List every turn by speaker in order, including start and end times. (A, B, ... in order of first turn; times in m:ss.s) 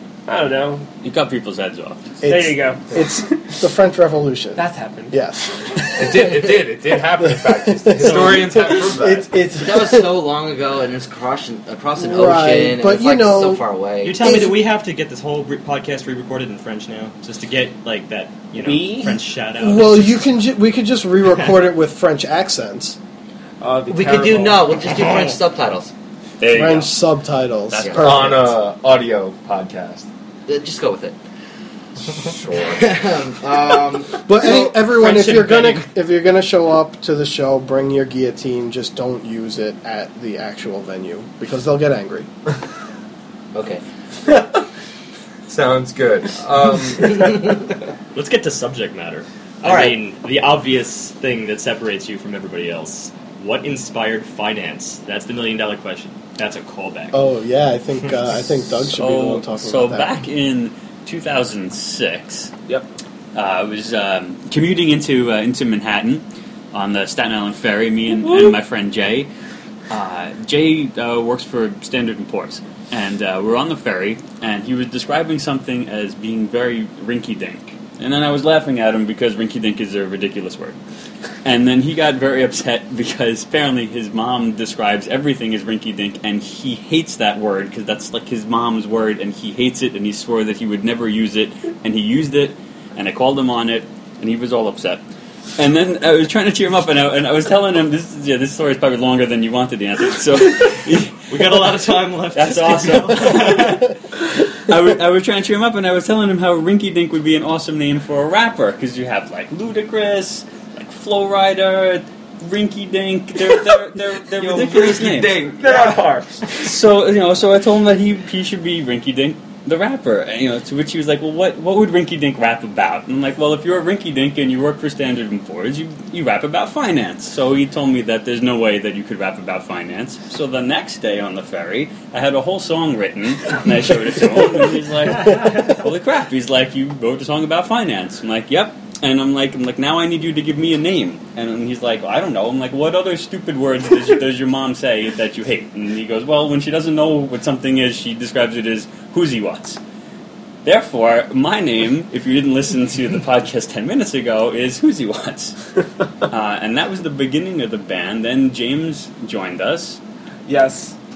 0:00.2-0:00.9 A
0:01.0-0:02.2 B
0:02.2-0:06.6 C
0:02.2-0:02.9 A
0:04.6-0:05.1 A
0:06.0-0:09.3 D
0:07.2-0:10.1 C
0:08.0-0:08.8 E
0:09.6-0:14.2 F
0:12.0-0:13.6 C
0:14.0-0:20.2 E
0:14.2-0:14.6 C
0:18.6-0:19.2 A
0:19.6-0:23.0 C
0:23.6-0:24.8 A
0:23.9-0:25.9 F
0:26.4-0:27.0 B
0:26.5-0:28.6 C
0:27.7-0:28.1 B
0:28.0-0:30.0 D
0:30.5-0:31.2 F
0:32.2-0:32.8 D
0:32.7-0:35.2 F
0:34.3-0:42.3 C
0:43.5-0:43.8 F
0:45.5-0:47.7 D
0:48.1-0:57.2 E
0:49.6-0:50.0 F
0:57.1-1:00.2 C
0:58.9-1:02.5 B
1:03.3-1:09.3 B
1:08.2-1:08.6 A
1:09.9-1:20.8 B
1:21.4-1:35.0 B
1:35.6-1:41.6 B
1:41.3-1:43.8 E
1:42.3-1:43.9 B
1:44.5-1:55.6 B
1:54.5-1:55.9 F
1:55.5-1:56.7 A
1:56.6-2:29.8 B
2:30.6-2:35.6 B
2:36.3-2:40.0 B
2:40.4-2:40.9 A